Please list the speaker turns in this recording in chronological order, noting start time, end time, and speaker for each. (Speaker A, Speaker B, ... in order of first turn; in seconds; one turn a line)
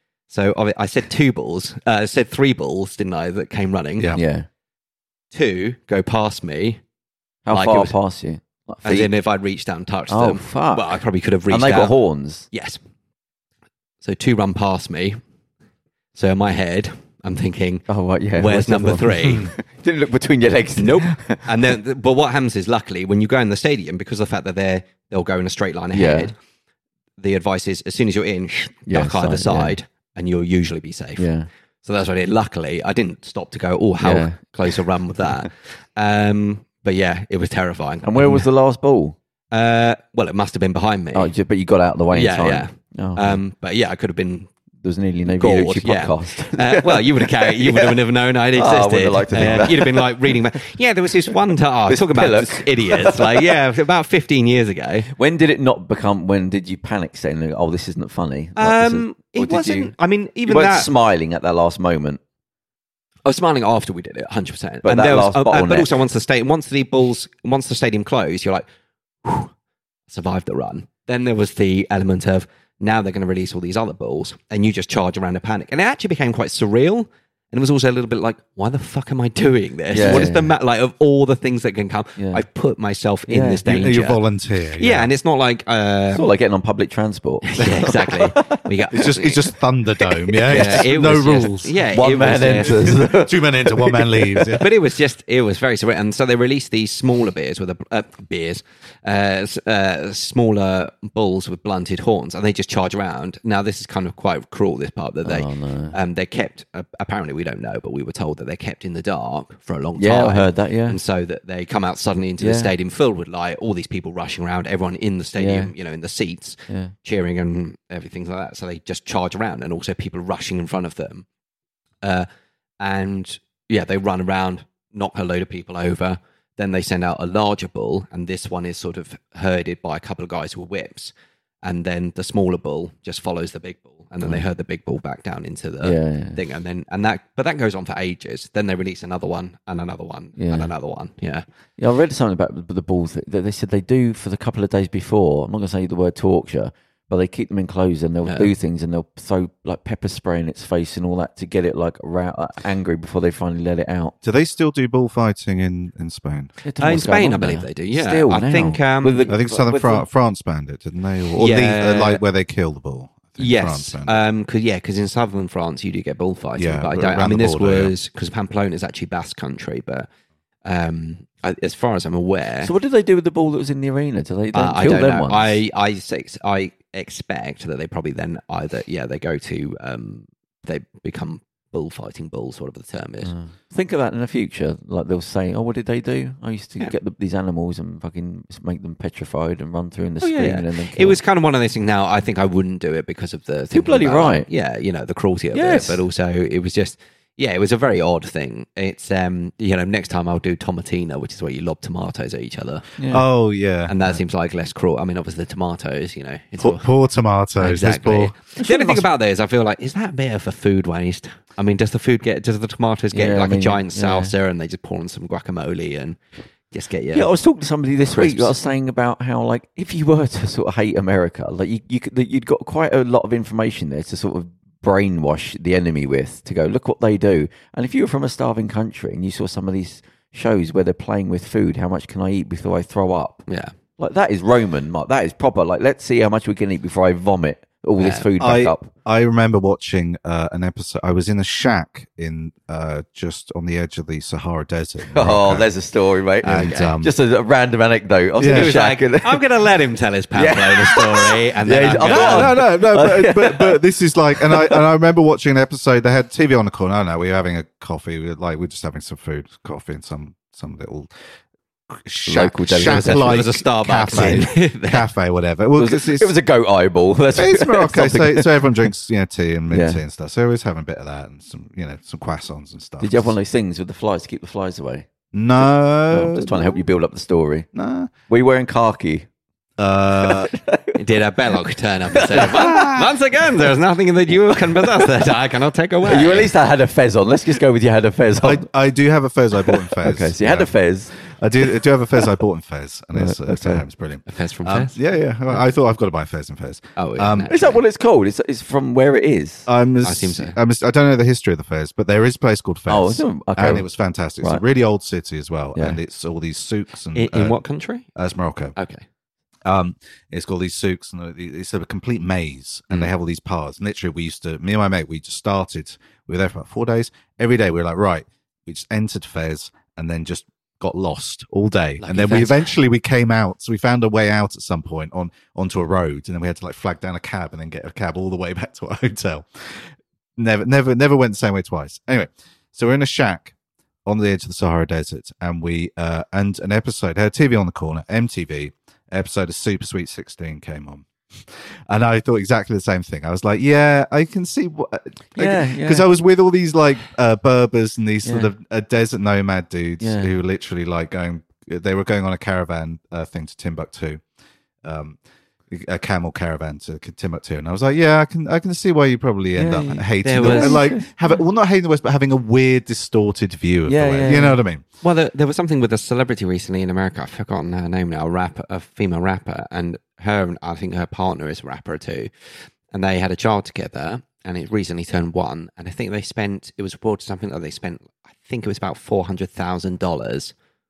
Speaker A: 0.3-4.1
Speaker B: 4.1-4.5
Speaker A: 5.3-6.8
Speaker B: 7.5-9.1
Speaker A: 7.5-7.9
Speaker A: 8.8-11.9
Speaker B: 10.1-12.4
Speaker A: 12.5-12.8
Speaker A: 14.0-15.2
Speaker A: 16.1-17.9
Speaker B: 17.9-21.4
Speaker A: 18.4-19.5
Speaker A: 20.8-26.3
Speaker B: 25.9-26.3
Speaker A: 27.2-31.3
Speaker B: 28.9-29.7
Speaker B: 31.2-31.5
Speaker A: 31.8-38.5
Speaker B: 34.0-34.4
Speaker B: 38.0-39.1
Speaker A: 39.5-41.3
Speaker B: 41.1-43.4
Speaker A: 42.1-44.5
Speaker B: 44.8-48.0
Speaker A: 45.3-55.1
Speaker B: 48.5-50.3
Speaker B: 51.9-53.5
Speaker B: 55.1-59.9
Speaker A: 58.6-60.9
Speaker B: 60.5-62.2
Speaker A: 63.2-68.6
Speaker B: 64.8-65.9
Speaker A: 69.2-69.5
Speaker A: 70.1-84.2
Speaker B: 79.9-80.5
Speaker B: 82.2-82.4
Speaker B: 83.3-83.6
Speaker C: 83.6-85.1
Speaker A: 84.8-86.3
Speaker B: 86.1-88.6
Speaker A: 87.5-89.5
Speaker C: 87.6-87.8
Speaker C: 88.9-91.7
Speaker A: 90.5-93.1
Speaker B: 90.5-90.8
Speaker B: 91.9-94.6
Speaker C: 92.5-94.7
Speaker A: 94.5-121.2
Speaker B: 105.2-106.0
Speaker B: 110.0-111.0
Speaker B: 112.4-112.7
Speaker B: 115.4-115.7
Speaker A: 122.0-122.3
Speaker A: 122.8-131.1
Speaker A: 131.6-141.4
Speaker B: 135.8-136.4
Speaker B: 140.4-140.7
Speaker B: 141.8-154.1
Speaker A: 148.2-148.5
Speaker C: 154.2-156.5
Speaker B: 156.6-160.0
Speaker A: 156.8-159.3
Speaker C: 159.3-164.2
Speaker A: 161.4-162.2
Speaker A: 163.4-170.1
Speaker C: 166.6-167.9
Speaker A: 170.6-172.7
Speaker B: 172.6-175.6
Speaker A: 174.5-183.3
Speaker B: 183.2-191.2
Speaker A: 190.2-202.9
Speaker B: 193.7-194.5
Speaker B: 195.5-196.0
Speaker B: 203.0-203.2
Speaker C: 203.1-203.9
Speaker A: 203.9-206.9
Speaker C: 206.6-208.4
Speaker A: 207.6-216.2
Speaker B: 208.6-209.0
Speaker B: 213.1-214.3
Speaker A: 216.7-217.3
Speaker B: 217.1-233.4
Speaker A: 218.1-218.5
Speaker A: 233.5-233.7
Speaker B: 234.0-238.9
Speaker A: 238.0-238.3
Speaker C: 238.4-245.7
Speaker B: 245.1-249.4
Speaker C: 246.4-247.1
Speaker A: 246.4-246.9
Speaker C: 248.4-248.7
Speaker A: 248.4-252.6
Speaker B: 250.3-253.8
Speaker C: 252.0-261.1
Speaker B: 254.3-254.8
Speaker C: 261.9-266.3
Speaker B: 262.3-263.4
Speaker A: 262.8-265.1
Speaker B: 264.1-264.4
Speaker B: 265.7-268.8
Speaker C: 267.3-273.3
Speaker B: 269.7-270.0
Speaker B: 273.0-275.1
Speaker C: 275.3-276.8
Speaker B: 276.1-277.7
Speaker C: 277.7-278.1
Speaker B: 278.3-279.3
Speaker C: 279.8-280.5
Speaker B: 280.2-281.0
Speaker A: 280.9-286.5
Speaker B: 282.1-282.8
Speaker C: 282.4-283.1
Speaker B: 284.8-285.1
Speaker B: 286.0-288.7
Speaker C: 288.4-297.5
Speaker B: 289.7-291.7
Speaker B: 293.1-293.8
Speaker A: 294.3-295.0
Speaker A: 296.9-297.8
Speaker B: 297.5-299.7
Speaker C: 299.7-307.6
Speaker A: 300.0-300.6
Speaker B: 302.9-303.9
Speaker A: 307.1-308.1
Speaker C: 308.1-308.7
Speaker A: 308.8-309.0
Speaker C: 309.6-333.5
Speaker A: 322.0-322.7
Speaker C: 334.1-354.2
Speaker B: 345.4-346.1
Speaker B: 348.2-348.5
Speaker B: 350.0-350.3
Speaker C: 354.8-355.2
Speaker C: 355.7-364.8
Speaker B: 359.6-361.1
Speaker A: 360.2-360.8
Speaker B: 363.9-364.6
Speaker A: 365.0-372.3
Speaker A: 372.9-380.5